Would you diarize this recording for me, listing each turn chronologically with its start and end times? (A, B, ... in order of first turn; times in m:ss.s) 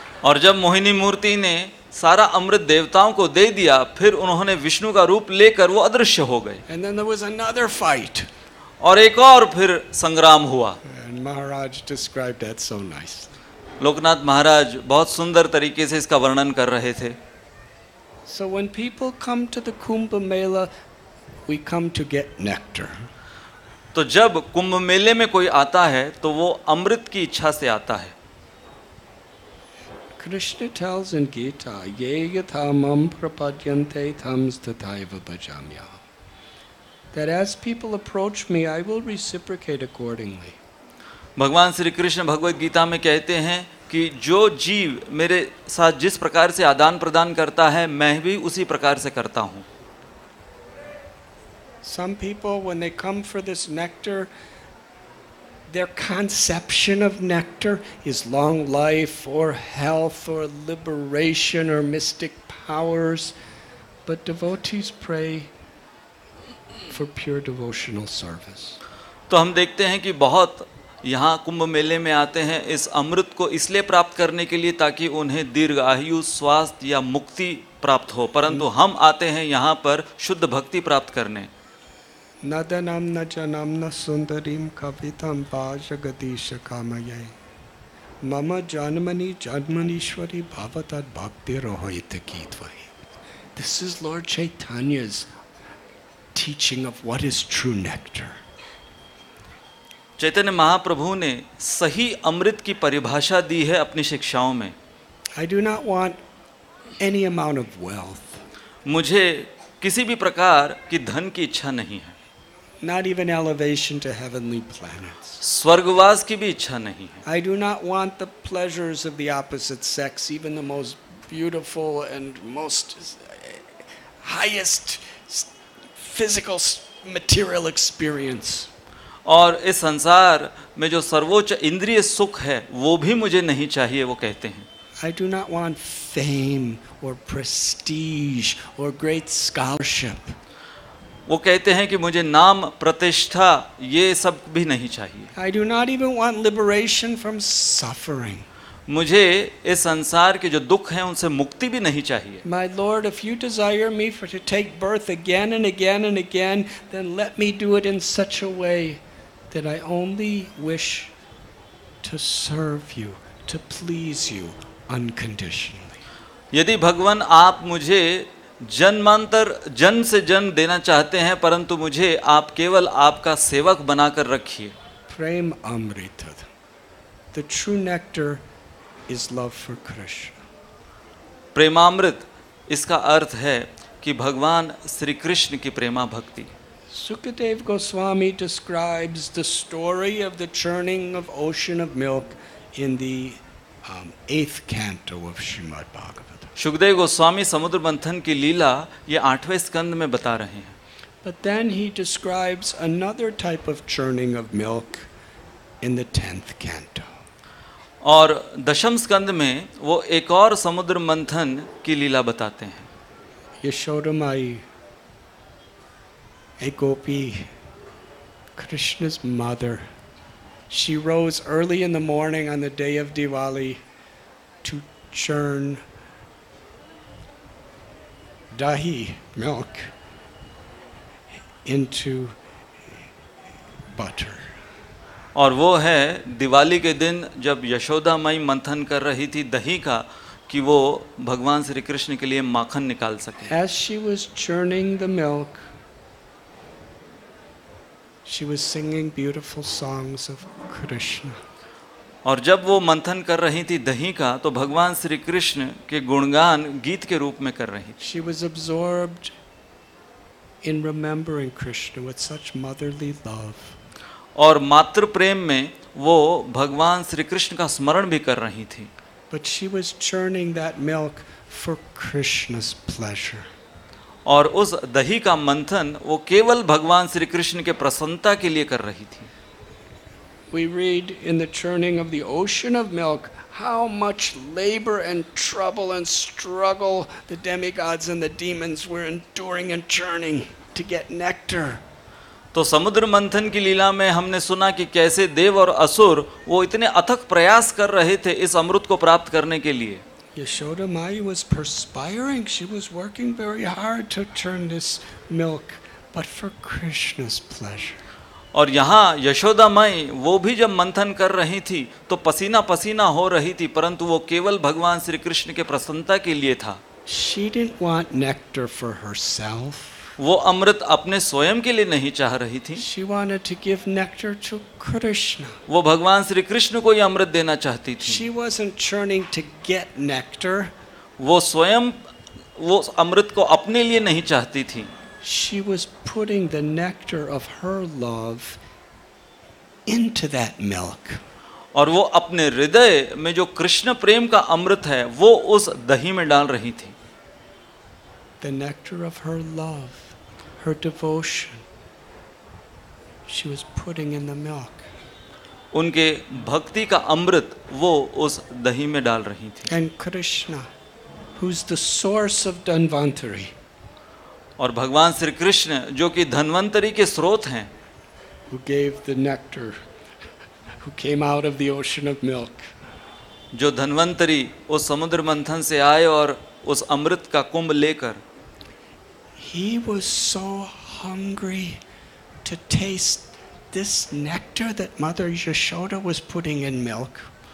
0:00.2-0:06.6 A
0:06.7-0:08.3 B
0:08.8-0:10.8 A
0:10.8-0:13.3 B
0:13.8-0:17.2 A
0:18.3-0:20.7 B
0:21.5-0:23.1 B
0:23.9-0:28.1 A
0:30.2-0:36.0 B
0:37.1-0:40.6 B
0:41.4-0:49.7 A
0:51.8-0:54.3 B
0:55.7-1:03.4 B
1:04.1-1:05.5 B
1:06.9-1:08.8 B
1:09.3-1:21.5 A
1:22.4-1:27.4 B
1:28.2-1:32.9 B
1:33.6-1:35.3 B
1:36.4-1:38.4 B
1:40.2-1:44.8 A
1:45.4-1:46.2 B
1:47.0-1:48.4 B
1:48.9-1:52.2 A
1:52.8-1:55.4 B
1:55.4-1:57.2 A
1:57.2-2:08.7 B
2:09.3-2:14.7 A
2:15.0-2:20.4 B
2:21.3-2:25.3 A
2:25.4-2:28.5 B
2:28.9-2:32.4 A
2:32.4-2:41.1 B
2:42.0-2:46.0 B
2:46.5-2:54.8 A
2:55.1-2:56.5 B
2:57.3-2:58.4 B
2:59.1-3:00.4 B
3:01.6-3:06.5 A
3:06.9-3:16.5 B
3:16.6-3:20.8 A
3:21.2-3:25.1 B
3:25.8-3:27.2 B
3:28.0-3:32.9 A
3:33.6-3:34.6 B
3:36.6-3:37.5 B
3:38.6-3:39.9 B
3:40.7-3:43.8 B
3:44.6-3:45.8 B
3:48.5-3:49.9 B
3:51.6-3:52.4 B
3:53.9-3:54.5 B
3:55.4-4:03.5 A
4:03.4-4:05.7 B
4:08.3-4:11.4 B
4:12.2-4:18.0 A
4:18.0-4:19.3 B
4:20.6-4:23.8 B
4:24.4-4:28.9 A
4:29.3-4:33.5 B
4:34.3-4:39.3 A
4:40.5-4:51.8 B
4:52.5-5:00.0 A
5:00.4-5:08.0 B
5:08.5-5:16.8 A
5:17.1-5:20.1 B
5:20.2-5:22.8 A
5:22.8-5:25.6 B
5:25.7-5:28.2 A
5:28.0-5:30.7 B
5:31.2-5:32.0 A
5:32.6-5:34.9 A
5:35.2-5:38.6 B
5:39.9-5:41.2 B
5:41.8-5:47.0 A
5:48.4-5:51.6 B
5:53.3-5:54.9 B
5:55.7-5:59.7 A
5:59.7-6:00.7 B
6:01.4-6:03.5 B
6:04.6-6:07.7 A
6:08.5-6:09.8 B
6:10.8-6:12.7 B
6:13.5-6:18.2 A
6:19.4-6:21.8 B
6:22.4-6:27.3 B